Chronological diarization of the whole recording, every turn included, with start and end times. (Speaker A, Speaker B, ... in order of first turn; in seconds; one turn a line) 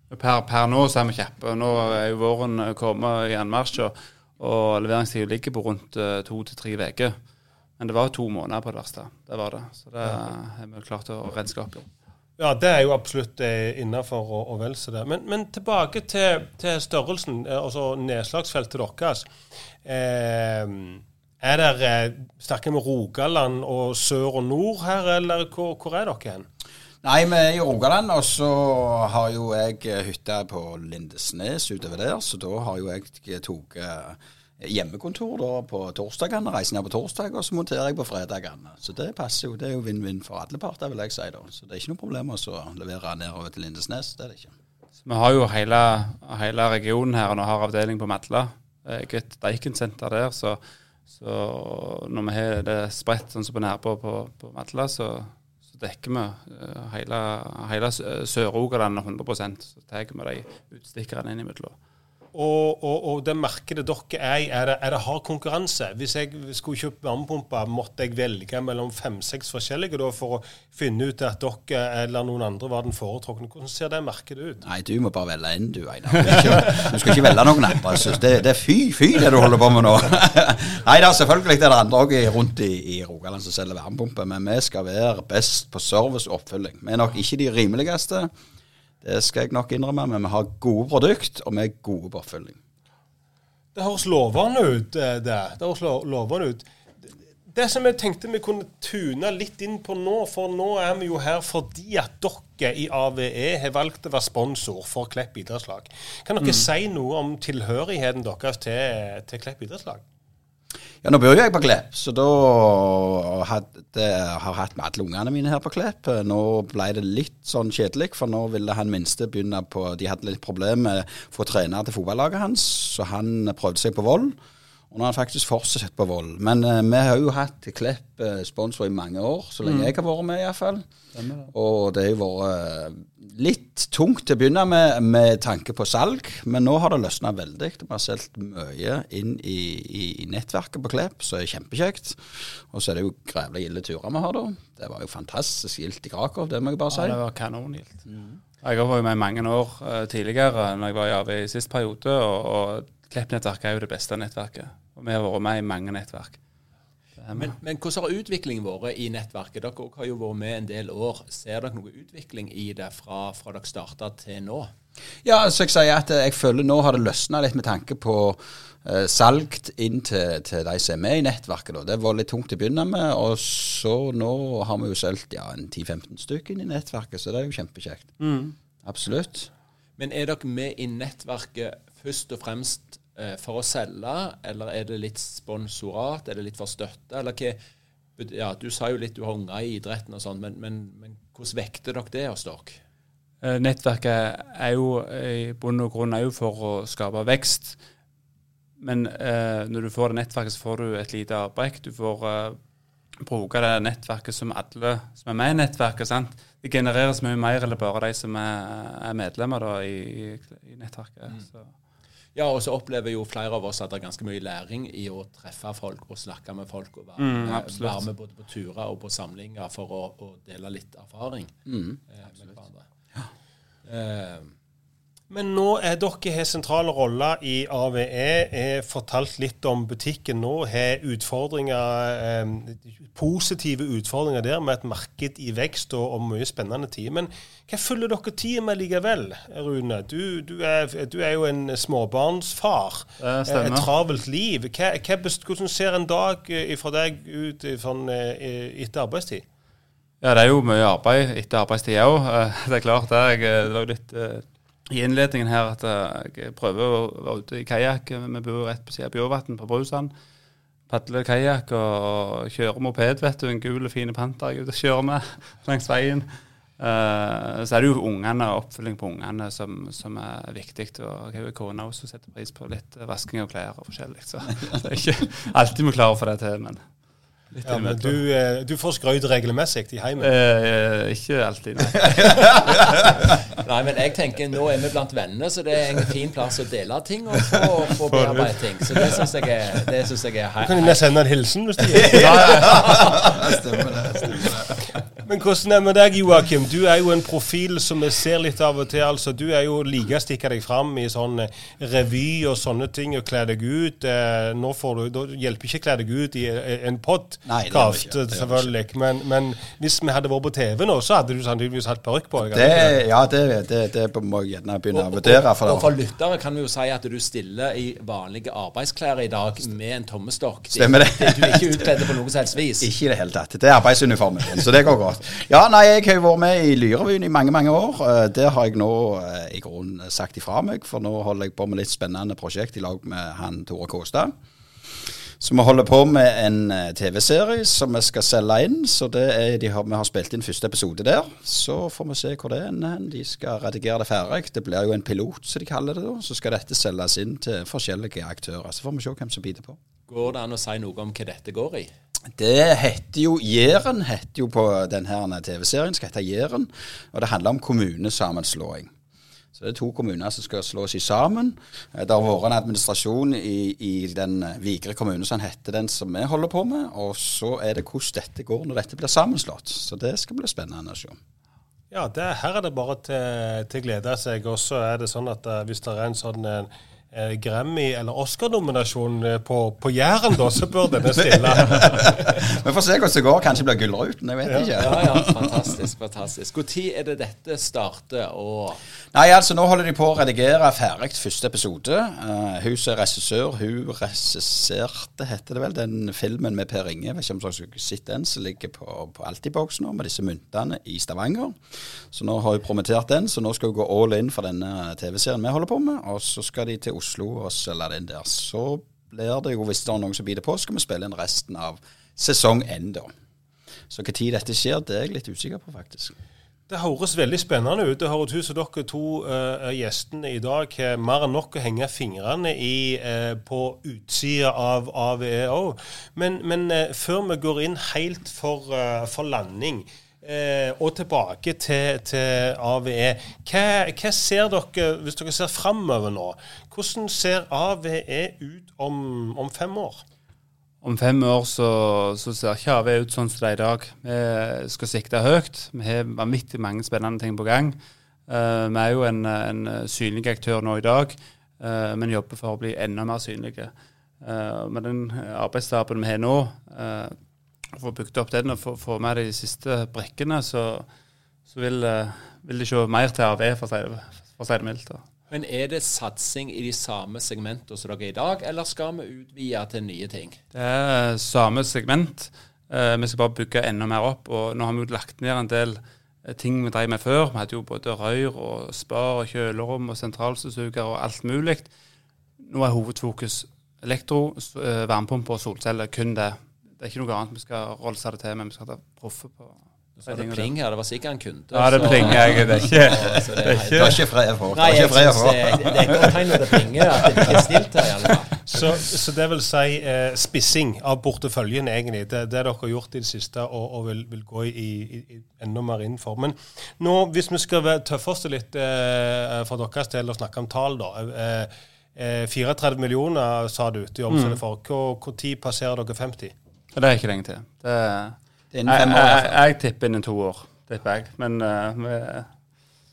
Speaker A: 0.1-7.1
Speaker A: 7.8-11.9
Speaker B: 12.4-19.2
Speaker B: 19.8-26.4
Speaker C: 27.0-44.5
Speaker A: 45.0-50.6
Speaker A: 51.1-61.8
Speaker B: 62.3-74.6
Speaker C: 74.6-88.3
Speaker C: 89.0-92.6
Speaker B: 93.8-96.7
Speaker B: 97.5-110.0
Speaker C: 111.0-124.4
Speaker C: 124.9-130.8
Speaker A: 129.6-129.9
Speaker A: 131.2-131.5
Speaker C: 131.5-147.2
Speaker A: 146.9-148.0
Speaker C: 148.1-148.4
Speaker A: 148.6-156.4
Speaker A: 157.2-157.5
Speaker D: 157.3-164.7
Speaker C: 165.2-178.2
Speaker A: 178.2-178.6
Speaker C: 178.8-179.5
Speaker D: 180.0-187.6
Speaker D: 188.2-192.8
Speaker A: 193.4-197.8
Speaker A: 198.8-202.6
Speaker A: 203.2-211.7
Speaker D: 212.3-221.5
Speaker A: 217.2-218.1
Speaker C: 221.7-222.0
Speaker D: 222.1-222.9
Speaker D: 223.9-224.5
Speaker B: 225.3-249.4
Speaker A: 243.2-243.9
Speaker A: 250.2-260.1
Speaker A: 260.9-266.3
Speaker A: 266.8-276.8
Speaker A: 277.5-278.2
Speaker B: 277.6-280.4
Speaker A: 280.2-282.4
Speaker D: 282.8-291.1
Speaker A: 288.1-288.5
Speaker B: 290.6-292.7
Speaker A: 292.2-292.6
Speaker C: 292.2-294.8
Speaker D: 292.3-293.1
Speaker B: 295.2-313.0
Speaker C: 307.4-308.7
Speaker C: 312.4-315.9
Speaker D: 314.9-322.9
Speaker C: 320.7-321.8
Speaker C: 322.8-334.3
Speaker C: 335.4-349.8
Speaker D: 350.1-351.9
Speaker C: 352.4-358.9
Speaker C: 359.6-371.2
Speaker B: 371.9-381.9
Speaker C: 381.4-385.5
Speaker B: 384.5-384.7
Speaker D: 384.8-388.8
Speaker C: 389.1-401.6
Speaker C: 402.1-413.1
Speaker C: 413.9-416.1
Speaker B: 416.7-440.0
Speaker A: 440.8-447.8
Speaker A: 448.3-457.1
Speaker A: 457.7-460.9
Speaker A: 461.5-465.0
Speaker D: 465.3-470.4
Speaker A: 470.5-481.7
Speaker A: 482.4-490.5
Speaker D: 490.0-498.4
Speaker A: 491.5-493.9
Speaker C: 493.8-497.4
Speaker B: 498.5-516.3
Speaker A: 514.1-514.4
Speaker A: 516.7-522.3
Speaker C: 518.5-519.4